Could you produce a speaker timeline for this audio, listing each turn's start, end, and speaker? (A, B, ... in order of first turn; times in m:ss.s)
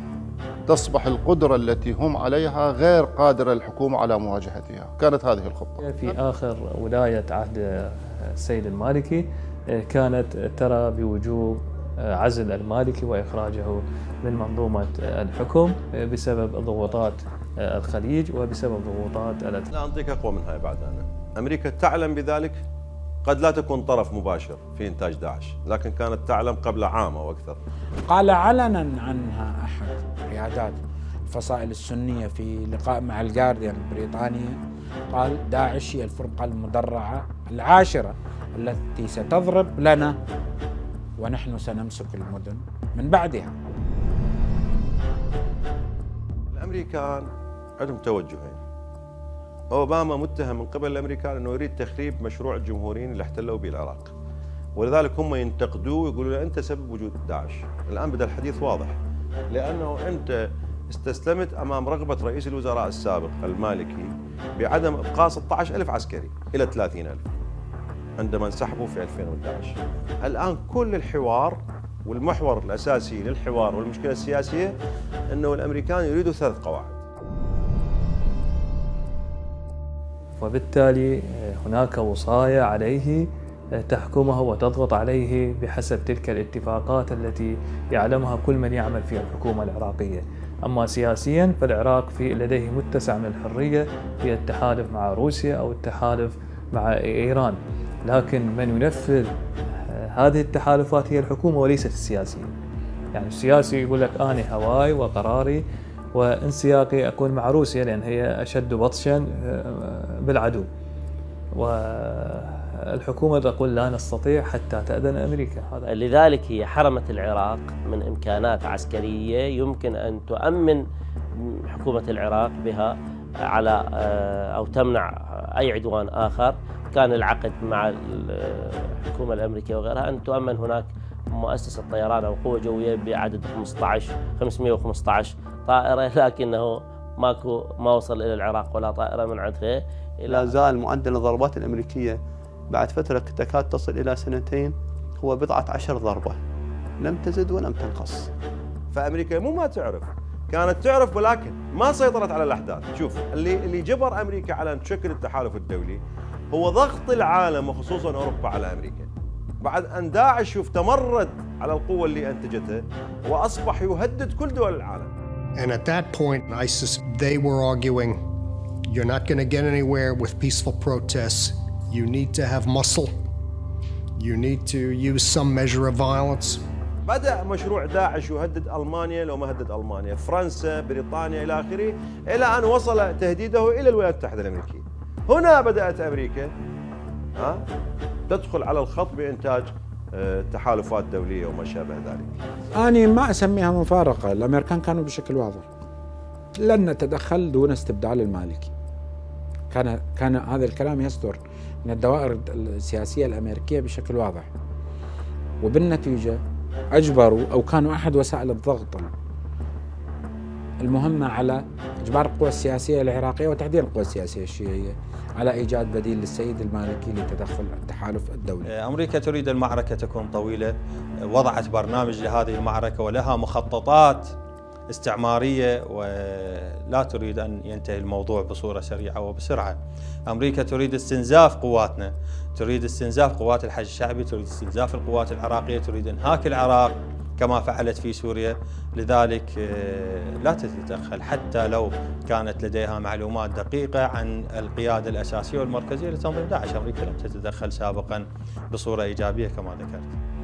0:00.7-0:06.1 A
0:05.8-0:19.7 B
0:19.7-0:22.6 C
0:23.2-0:27.6 C
0:28.1-0:40.2 D
0:41.2-0:43.6 D
0:46.5-0:48.6 C
0:49.7-0:54.1 C
0:54.8-0:59.0 C
0:59.5-1:00.4 C
1:00.9-1:07.3 C
1:08.2-1:14.7 C
1:15.3-1:17.0 C
1:20.4-1:23.2 B
1:23.8-1:42.5 B
1:43.1-1:45.6 B
1:46.1-1:50.7 B
1:51.6-1:55.9 B
1:55.9-2:00.8 E
2:01.4-2:03.0 E
2:03.5-2:20.5 E
2:20.3-2:22.2 F
2:22.7-2:26.4 F
2:27.0-2:28.3 F
2:28.9-2:36.0 C
2:36.5-2:39.1 C
2:39.6-2:45.1 C
2:45.6-2:48.2 G
2:48.9-2:53.2 G
2:54.2-2:56.6 G
2:57.1-3:06.5 C
3:07.4-3:07.6 C
3:08.3-3:12.3 C
3:12.7-3:15.7 D
3:16.6-3:18.7 D
3:19.7-3:24.5 D
3:25.6-3:26.4 D
3:26.9-3:29.1 D
3:30.8-3:38.7 D
3:38.7-3:40.7 H
3:41.3-3:44.3 H
3:44.9-3:49.8 H
3:50.3-4:10.1 H